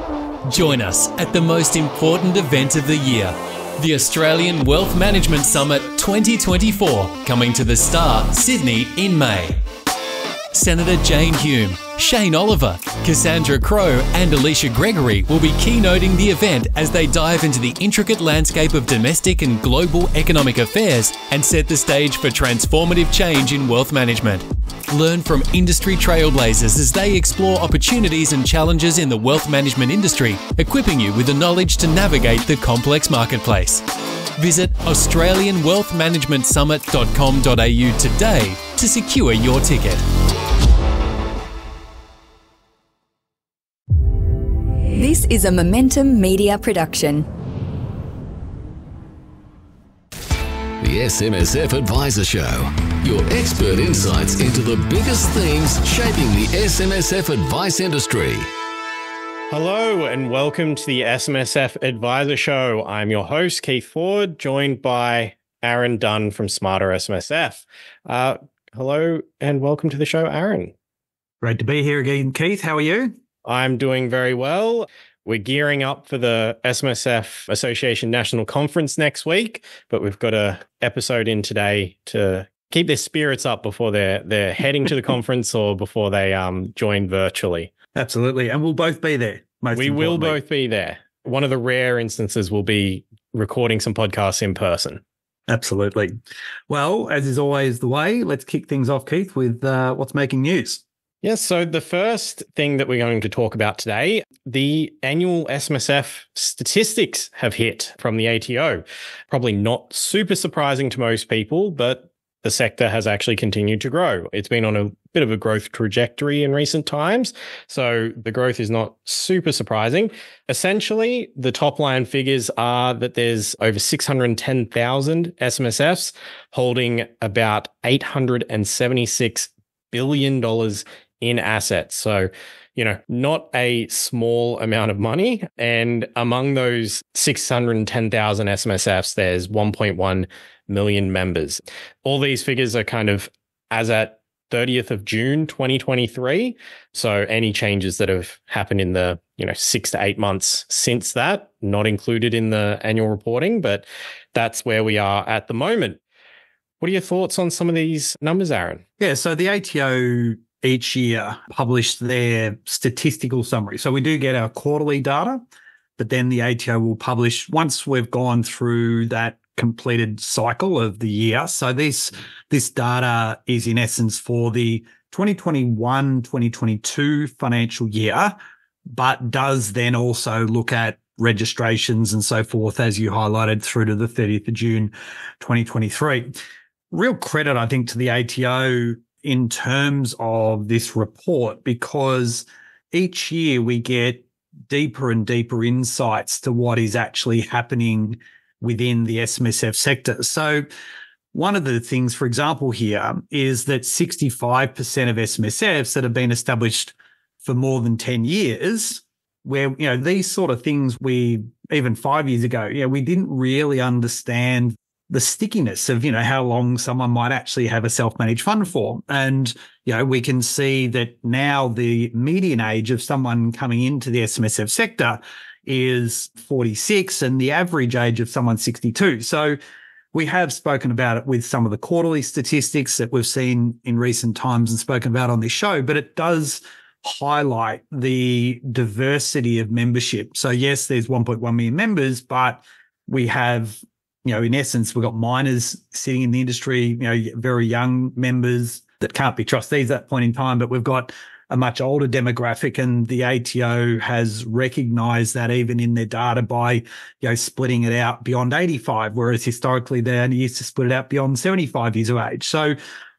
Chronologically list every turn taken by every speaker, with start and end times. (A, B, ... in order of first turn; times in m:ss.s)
0:00.4-0:09.6 A
0:10.5-0:33.8 A
0:34.4-0:40.0 A
0:44.9-0:47.3 B
0:50.8-0:58.5 C
0:59.5-1:10.7 D
1:11.4-1:13.1 E
1:13.4-1:27.7 D
1:28.0-1:30.4 E
1:29.7-1:35.0 D
1:35.5-1:36.1 E
1:36.7-1:40.8 E
1:41.2-2:36.0 D
2:36.8-2:38.8 D
2:39.0-2:45.4 E
2:46.0-2:58.4 E
2:58.9-3:06.4 E
3:06.9-3:20.6 E
3:21.3-3:49.6 E
3:50.1-4:22.8 E